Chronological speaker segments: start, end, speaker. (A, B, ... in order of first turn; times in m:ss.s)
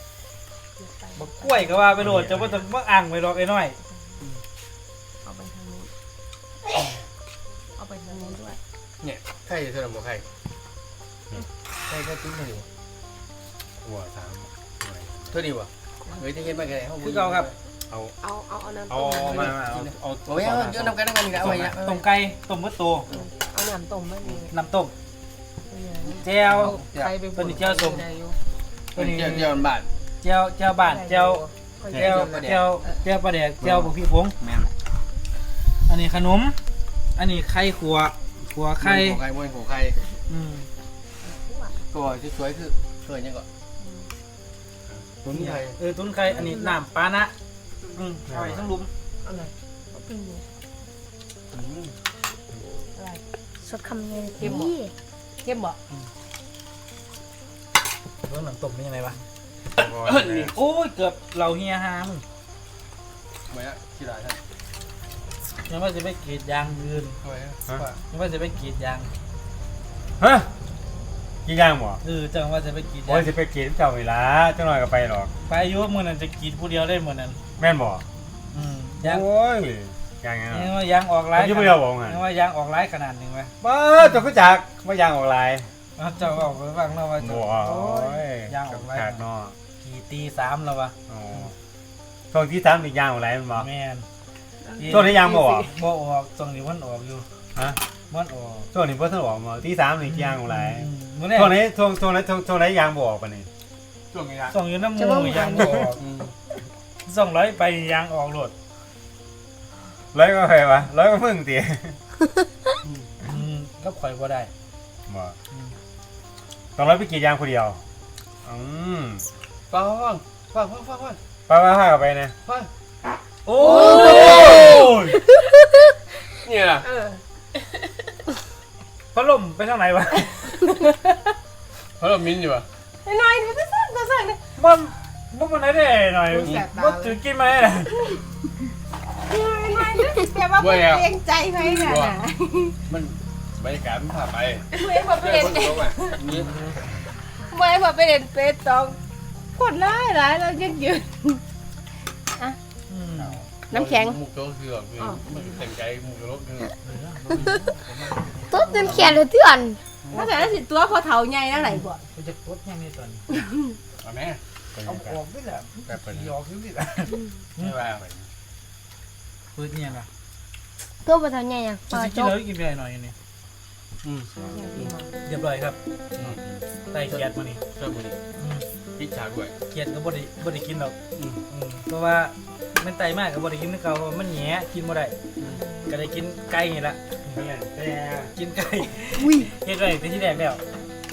0:00.8-0:01.8 A
0:01.2-0:03.8 B
0:02.0-0:02.6 C
0:05.2-0:05.9 A
0:07.8-0:08.6 A
0:09.0-0:10.3 D
0:11.9-0:12.7 D
0:13.8-0:15.4 C
0:15.3-0:17.6 D
0:17.0-0:17.5 B
0:18.2-0:19.6 A
0:18.9-0:21.8 C
0:19.2-0:21.8 D
0:21.8-0:23.1 B
0:23.1-0:24.5 A
0:24.5-0:24.9 B
0:25.7-0:28.4 A
0:26.2-0:26.8 B
0:26.3-0:27.1 D
0:27.4-0:28.0 B
0:29.0-0:29.6 B
0:29.0-0:29.9 D
0:30.2-0:34.5 B
0:30.8-0:32.5 A
0:31.9-0:32.7 D
0:35.7-0:36.6 B
0:37.2-0:39.2 B
0:38.8-0:40.0 D
0:40.3-0:40.7 B
0:41.2-0:41.8 A
0:41.9-0:43.5 D
0:43.8-0:44.1 A
0:45.0-0:45.8 D
0:45.3-0:47.3 B
0:47.9-0:48.9 B
0:48.3-0:48.6 D
0:49.2-0:50.4 A
0:51.5-0:52.0 D
0:53.0-0:53.2 A
0:53.7-0:54.6 E
0:54.4-0:54.7 A
0:55.4-0:55.8 A
0:58.2-0:59.2 B
0:59.8-1:00.6 C
0:59.8-1:00.5 D
1:00.5-1:02.2 B
1:03.5-1:04.4 D
1:05.4-1:07.2 B
1:07.2-1:08.0 D
1:08.1-1:09.1 B
1:10.2-1:10.5 C
1:11.4-1:12.0 C
1:12.0-1:13.3 B
1:13.1-1:15.3 C
1:15.5-1:17.4 B
1:17.6-1:18.0 C
1:18.5-1:19.2 B
1:19.0-1:20.8 C
1:20.5-1:23.5 B
1:21.3-1:22.2 C
1:23.6-1:25.7 C
1:26.0-1:29.2 B
1:27.2-1:29.6 C
1:29.8-1:30.9 B
1:31.1-1:31.5 C
1:32.3-1:33.7 C
1:33.6-1:34.1 B
1:34.7-1:35.6 A
1:34.8-1:37.3 B
1:34.8-1:35.7 C
1:37.6-1:37.8 C
1:38.1-1:38.7 B
1:38.7-1:43.5 C
1:40.1-1:41.5 B
1:44.1-1:44.6 D
1:44.5-1:46.0 B
1:45.3-1:45.6 E
1:45.6-1:46.4 D
1:47.0-1:48.5 B
1:50.1-1:52.0 C
1:52.8-1:53.1 D
1:53.2-1:54.5 B
1:55.1-1:55.4 C
1:56.8-1:57.8 C
1:58.4-1:59.3 C
1:59.7-2:01.2 D
2:01.5-2:02.4 C
2:03.5-2:05.2 B
2:03.6-2:05.0 D
2:03.7-2:05.5 A
2:06.4-2:06.9 D
2:06.8-2:07.2 A
2:09.1-2:10.7 B
2:12.0-2:12.7 D
2:13.0-2:14.4 A
2:14.6-2:18.0 B
2:16.3-2:17.2 A
2:19.3-2:22.8 A
2:20.6-2:22.2 D
2:22.9-2:26.5 D
2:24.7-2:26.2 A
2:26.4-2:26.8 B
2:27.5-2:29.0 A
2:29.6-2:31.4 A
2:32.9-2:33.4 B
2:33.7-2:34.2 A
2:33.7-2:36.7 D
2:35.0-2:35.4 A
2:36.8-2:39.2 B
2:38.5-2:39.7 E
2:40.1-2:40.5 B
2:40.1-2:42.0 A
2:41.8-2:43.3 B
2:44.0-2:44.4 D
2:44.8-2:45.2 C
2:44.9-2:47.8 B
2:45.8-2:46.4 D
2:47.6-2:48.0 D
2:49.6-2:50.1 B
2:51.1-2:52.4 E
2:51.9-2:53.2 B
2:54.0-2:55.0 D
2:54.5-2:55.1 A
2:55.2-2:55.8 B
2:56.2-2:56.5 C
2:56.9-2:57.6 B
2:57.1-2:58.2 D
2:58.4-2:58.6 B
2:59.0-2:59.6 D
2:59.7-3:01.0 B
3:01.5-3:05.2 B
3:05.9-3:07.1 B
3:07.3-3:08.3 C
3:08.4-3:10.6 B
3:09.2-3:09.5 E